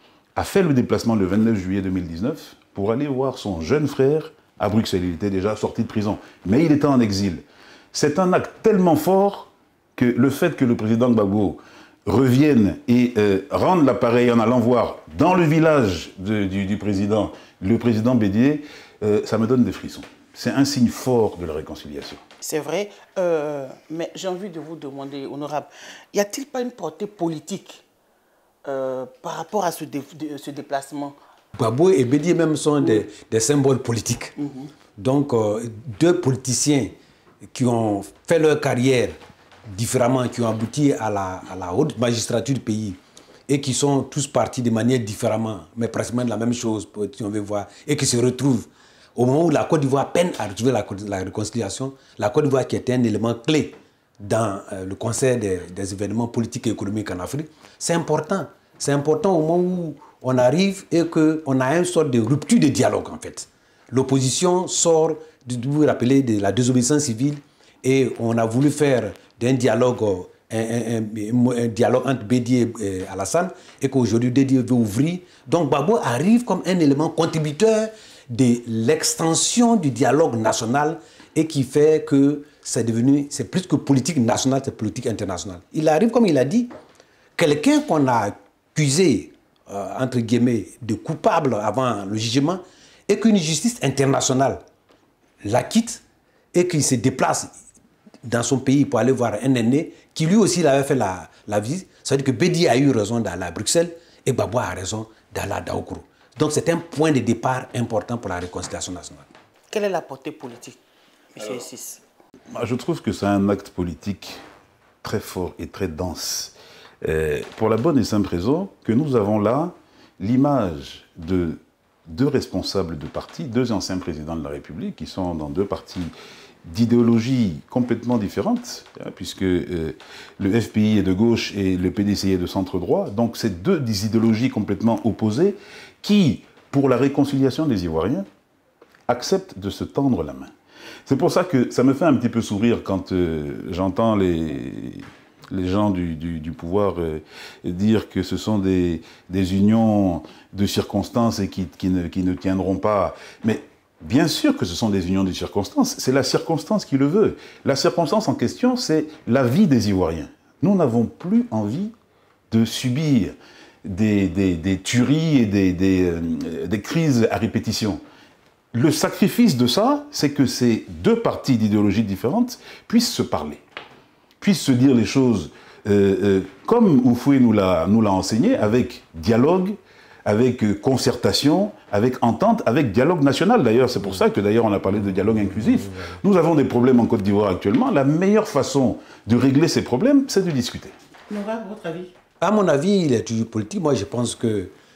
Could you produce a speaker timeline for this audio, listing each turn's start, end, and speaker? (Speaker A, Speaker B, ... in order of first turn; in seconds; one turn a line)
Speaker A: 0.3-22.2
Speaker B: 22.4-27.8
Speaker B: 28.7-31.2
Speaker C: 31.6-34.3
Speaker B: 34.4-34.7
Speaker C: 35.0-36.9
Speaker C: 37.5-39.2
Speaker C: 39.7-86.7
Speaker C: 87.4-94.6
Speaker C: 95.4-96.0
Speaker C: 96.5-97.5
Speaker C: 98.2-109.3
Speaker B: 109.7-110.8
Speaker B: 111.3-112.0
Speaker A: 112.5-114.4
Speaker A: 115.0-126.1
Speaker A: 126.7-138.3
Speaker A: 139.1-140.5
Speaker A: 141.1-161.9
Speaker A: 162.5-163.3
Speaker A: 163.8-168.0
Speaker A: 168.7-173.6
Speaker A: 174.4-190.9
Speaker B: 191.3-192.1
Speaker C: 192.4-194.7